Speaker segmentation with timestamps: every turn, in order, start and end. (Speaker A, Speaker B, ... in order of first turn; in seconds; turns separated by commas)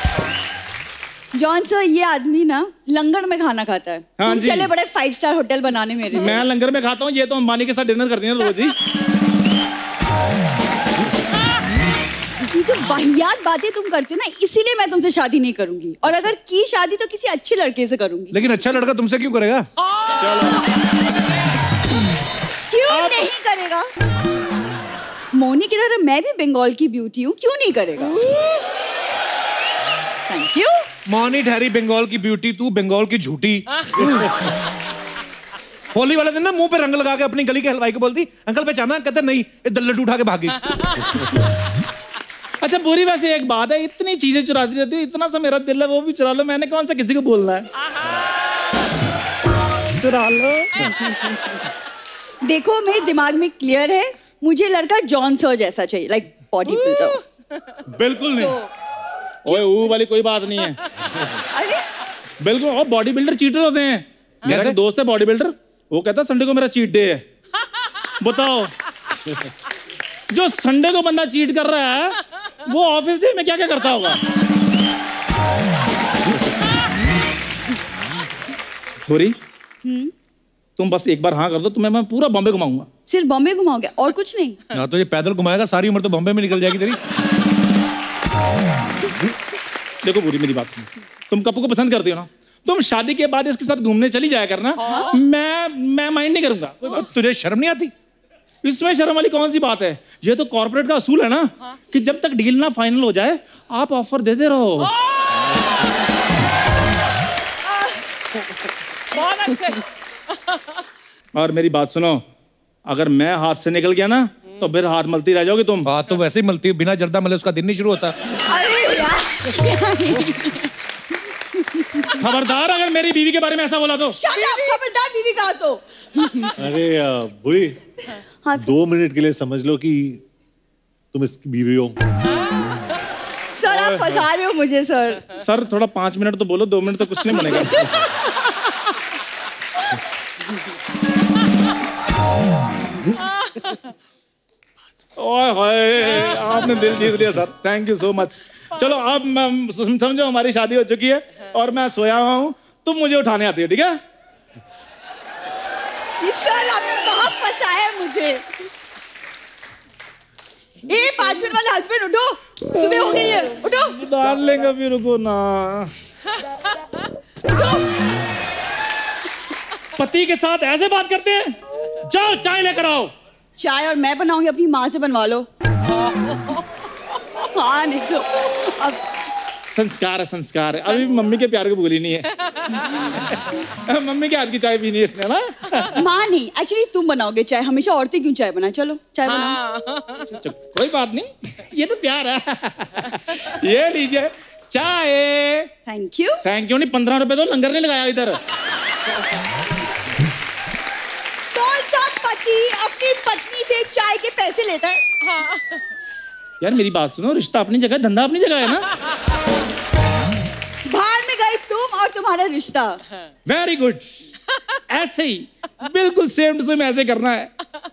Speaker A: 1.3-6.5, Speaker B: 4.2-4.7, Speaker B: 6.2-8.7, Speaker A: 12.5-18.4, Speaker C: 18.3-19.7, Speaker B: 20.2-20.6, Speaker A: 22.7-23.9, Speaker B: 22.9-23.3, Speaker A: 25.3-28.2, Speaker A: 30.3-30.9, Speaker C: 31.1-34.3, Speaker C: 35.9-40.6, Speaker B: 42.6-47.7, Speaker B: 50.0-50.9, Speaker A: 52.4-57.2, Speaker D: 56.7-57.0, Speaker B: 57.9-58.6, Speaker B: 59.4-60.8, Speaker A: 61.5-61.8, Speaker B: 62.4-67.2, Speaker C: 64.5-64.8, Speaker B: 68.2-68.7, Speaker B: 70.3-74.2, Speaker B: 79.1-79.4, Speaker A: 79.8-80.1, Speaker B: 80.8-82.9, Speaker A: 83.1-84.6, Speaker C: 84.7-87.0, Speaker B: 90.0-97.1, Speaker D: 94.8-95.2, Speaker C: 96.9-97.9, Speaker B: 98.6-104.9, Speaker D: 109.1-109.8, Speaker B: 111.3-112.2, Speaker B: 112.9-115.9, Speaker C: 115.8-118.2, Speaker A: 118.5-120.6, Speaker B: 122.2-124.2, Speaker A: 124.1-126.5, Speaker E: 126.6-127.8, Speaker A: 128.1-128.7, Speaker E: 128.6-130.2, Speaker E: 131.1-132.0, Speaker A: 133.6-135.3, Speaker B: 133.7-134.2, Speaker B: 135.3-137.9, Speaker A: 137.4-137.7, Speaker B: 145.2-154.0, Speaker A: 156.2-158.4, Speaker A: 160.9-164.0, Speaker B: 162.7-165.9, Speaker A: 167.5-167.8, Speaker B: 170.0-171.6, Speaker B: 172.1-173.1, Speaker A: 173.6-175.5, Speaker A: 177.5-179.0, Speaker B: 179.7-182.3, Speaker B: 183.9-185.9, Speaker A: 185.9-189.6, Speaker D: 189.3-190.2, Speaker B: 190.3-195.7, Speaker A: 195.9-196.4, Speaker B: 196.4-198.4, Speaker A: 201.5-205.0, Speaker B: 206.6-208.8, Speaker A: 210.9-213.0, Speaker B: 213.4-214.1, Speaker B: 214.9-217.5